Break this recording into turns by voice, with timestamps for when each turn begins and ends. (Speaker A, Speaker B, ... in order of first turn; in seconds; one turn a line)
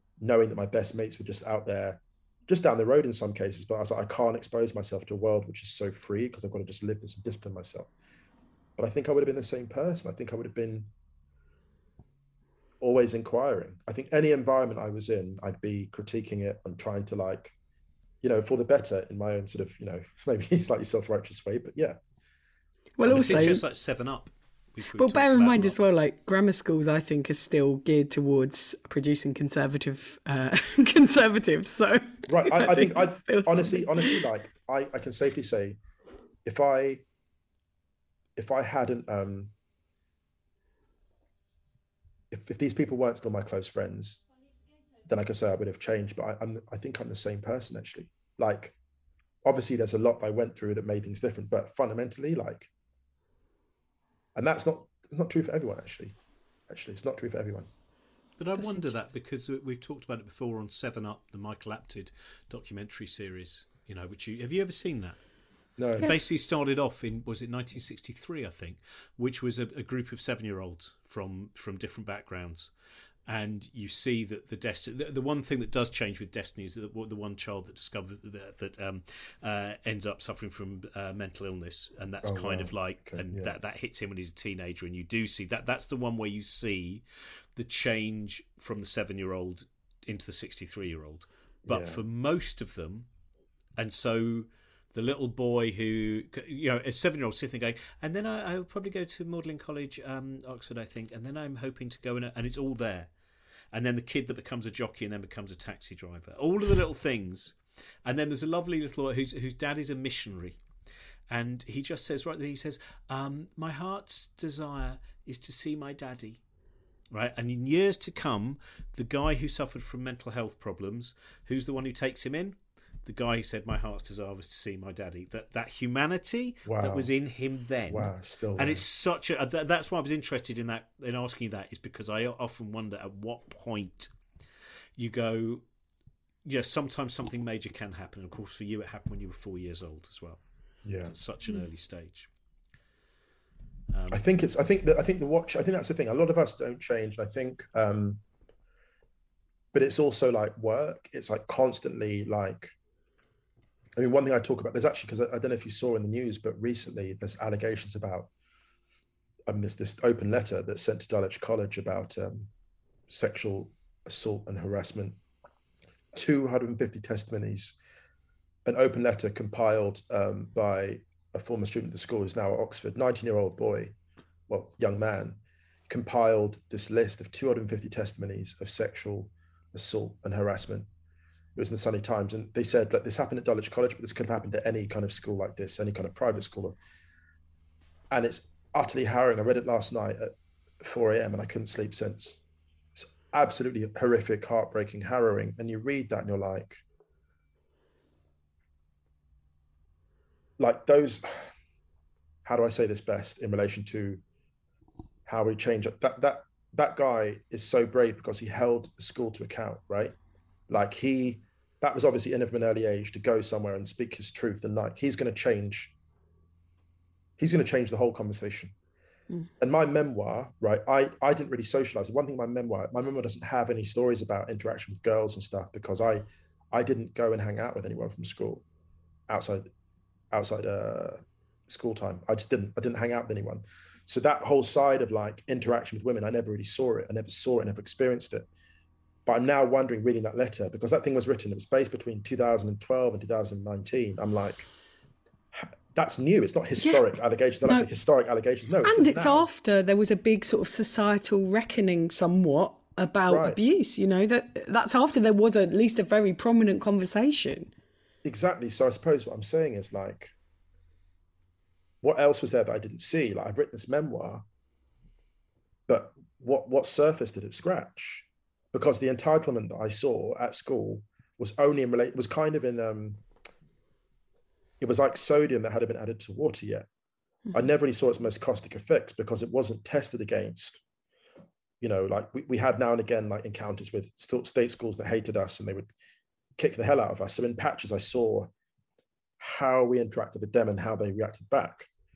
Speaker A: 0.2-7.9
Speaker A: 8.8-10.9
Speaker A: 12.8-17.5
Speaker A: 18.2-22.0
Speaker B: 23.0-23.6
Speaker C: 23.0-25.8
Speaker A: 23.1-23.5
Speaker B: 25.0-34.2
Speaker A: 32.3-35.8
Speaker A: 36.4-37.0
Speaker A: 38.4-39.5
Speaker A: 42.3-44.2
Speaker A: 45.0-48.8
Speaker A: 49.4-52.7
Speaker A: 54.3-56.1
Speaker A: 56.7-57.7
Speaker C: 58.4-65.2
Speaker A: 65.8-66.1
Speaker C: 66.0-72.7
Speaker C: 73.3-87.0
Speaker A: 82.2-83.5
Speaker C: 87.5-93.1
Speaker A: 91.7-92.0
Speaker C: 93.8-103.1
Speaker C: 103.7-110.6
Speaker C: 111.3-116.4
Speaker C: 117.1-134.1
Speaker A: 126.7-127.1
Speaker A: 127.9-128.8
Speaker C: 135.0-135.6
Speaker C: 136.4-140.4
Speaker A: 140.8-141.1
Speaker C: 141.0-142.3
Speaker C: 143.9-144.2
Speaker A: 144.1-148.2
Speaker A: 149.7-152.7
Speaker A: 153.9-158.3
Speaker A: 159.5-162.5
Speaker A: 163.1-165.2
Speaker A: 166.1-167.8
Speaker A: 168.7-173.9
Speaker A: 174.5-180.9
Speaker A: 181.6-186.8
Speaker A: 188.1-192.4
Speaker A: 192.9-196.8
Speaker A: 200.6-201.5
Speaker A: 202.4-204.2
Speaker A: 205.2-210.1
Speaker A: 210.7-215.9
Speaker A: 217.4-218.7
Speaker A: 219.6-228.6
Speaker A: 229.3-229.7
Speaker A: 230.3-238.5
Speaker A: 239.2-244.7
Speaker A: 245.5-249.5
Speaker B: 248.8-257.7
Speaker A: 253.3-253.6
Speaker A: 258.2-260.3
Speaker A: 262.0-264.4
Speaker A: 265.9-273.2
Speaker A: 274.8-276.9
Speaker A: 277.5-280.8
Speaker A: 281.8-285.9
Speaker A: 286.6-288.5
Speaker A: 289.4-291.9